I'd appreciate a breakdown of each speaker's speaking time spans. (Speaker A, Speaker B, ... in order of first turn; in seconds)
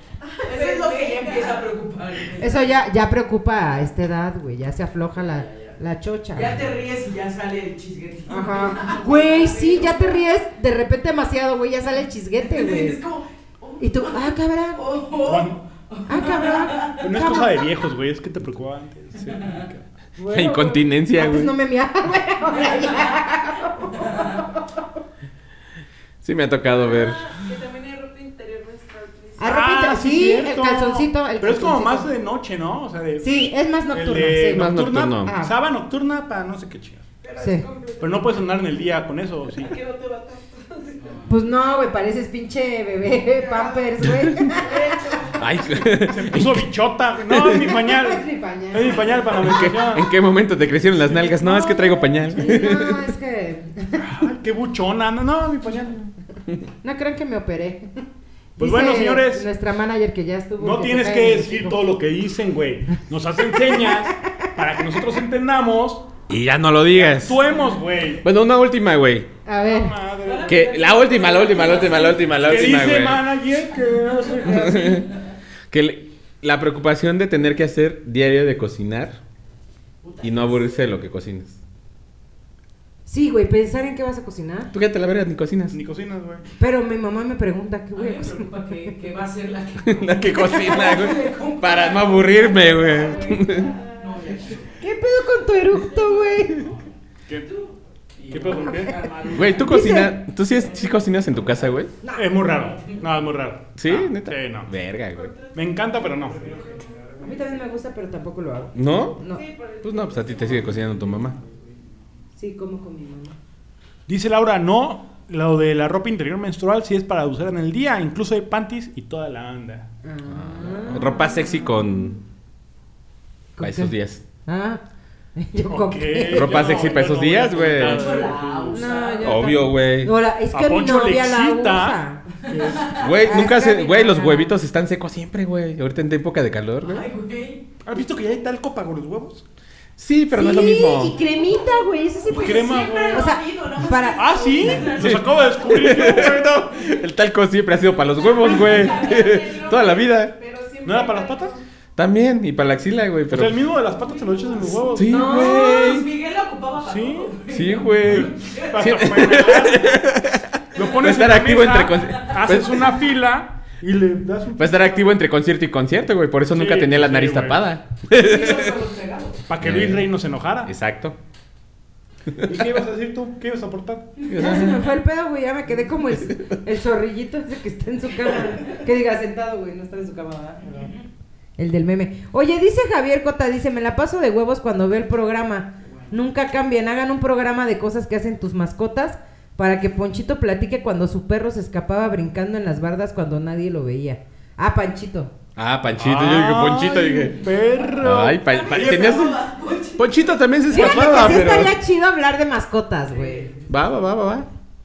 Speaker A: 0.2-1.7, 26.9-29.6, 37.2-38.9, 39.6-41.2, 43.3-45.9, 93.3-94.2, 105.1-107.4, 109.3-110.7, 148.6-151.6, 154.1-155.0
Speaker B: 0.5-2.7, 6.3-10.2, 12.4-17.0, 19.3-19.7, 24.0-24.4, 70.2-72.5, 80.0-80.8, 88.0-94.8, 97.5-99.9, 127.8-129.5, 132.5-133.1, 136.8-137.7, 141.3-141.6, 142.2-146.5, 148.3-149.9, 155.0-159.6, 160.7-161.2, 168.1-169.4, 174.2-174.7, 180.8-181.1, 197.5-200.4, 200.9-201.4, 203.1-203.8
Speaker C: 2.4-6.7, 8.3-13.0, 13.8-14.8, 16.1-17.6, 20.2-24.8, 29.4-32.1, 33.2-35.5, 37.4-37.7, 41.3-45.2, 47.7-49.3, 51.2-54.0, 56.8-57.9, 58.6-61.8, 63.6-64.2, 69.5-70.0, 83.1-84.7, 86.6-89.0, 94.8-96.7, 99.5-100.2, 102.0-102.3, 107.2-109.4, 112.4-113.4, 120.0-121.3, 123.6-124.0, 124.5-124.8, 125.4-126.6, 128.7-134.6, 140.3-144.9, 155.1-155.9, 174.3-180.7, 181.6-195.3, 200.7-203.5
Speaker D: 15.2-15.7, 17.0-19.8, 29.5-37.0, 38.0-39.7, 46.0-50.1, 54.0-56.1, 58.6-59.5, 60.6-66.1, 66.9-68.2, 69.6-70.7, 72.4-75.0, 85.7-86.5, 97.3-97.5, 98.3-99.1, 102.2-104.7, 105.5-106.9, 114.1-119.9, 125.7-128.9, 130.5-132.0, 137.8-139.4, 142.3-143.3, 144.2-146.6, 150.8-151.6, 153.3-155.2, 156.8-157.4, 158.0-160.0, 160.7-165.2, 166.5-167.6, 169.5-170.7, 172.4-174.1, 180.7-180.9, 196.0-199.3
Speaker E: 20.3-21.5, 26.2-27.3, 34.5-35.4, 45.4-46.7, 47.3-47.7, 49.4-53.0, 66.3-67.5, 68.2-69.3, 70.5-73.2, 74.5-75.1, 75.7-79.2, 80.2-81.6, 84.7-85.8, 89.8-93.8, 99.3-101.9, 103.8-105.3, 108.8-109.2, 109.8-111.4, 120.3-122.2, 123.6-124.2, 126.3-128.2, 129.2-130.1, 132.9-137.1, 140.0-141.2, 145.0-150.3, 152.0-153.5, 154.9-156.1, 157.5-162.9, 164.6-168.7, 169.6-170.1, 170.7-171.2, 174.3-174.8, 176.2-176.5, 195.6-197.4, 198.0-199.4, 200.0-201.8, 203.7-204.5